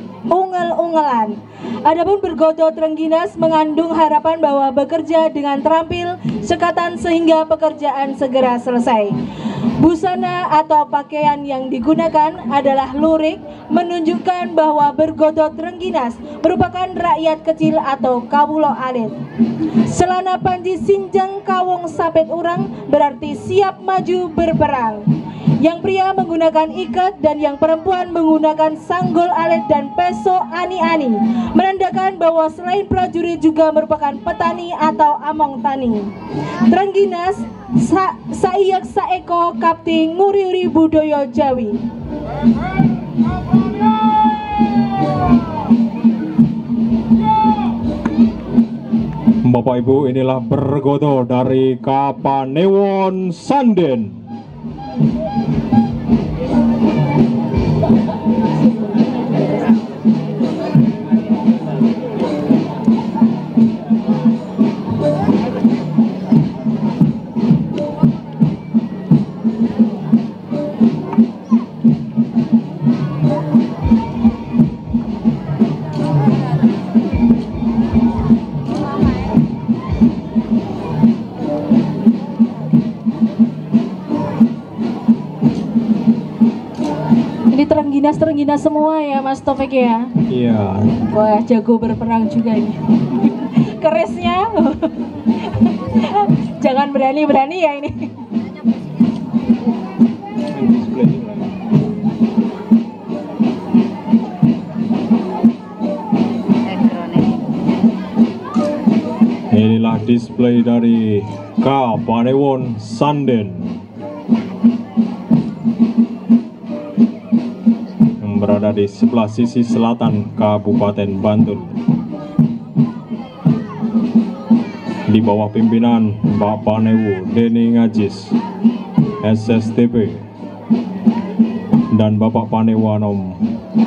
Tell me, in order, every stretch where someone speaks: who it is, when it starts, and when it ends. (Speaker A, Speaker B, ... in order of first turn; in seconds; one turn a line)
Speaker A: 0.3-9.2
Speaker A: 9.8-19.1
Speaker A: 19.9-25.0
Speaker A: 25.6-36.1
Speaker A: 36.7-41.8
Speaker B: 49.4-54.2
Speaker A: 87.5-90.1
Speaker B: 90.3-91.0
Speaker A: 91.1-98.1
Speaker B: 100.5-101.5
Speaker B: 109.5-113.8
Speaker B: 118.2-121.8
Speaker B: 125.1-128.3
Speaker B: 129.2-130.2
Speaker B: 131.9-133.4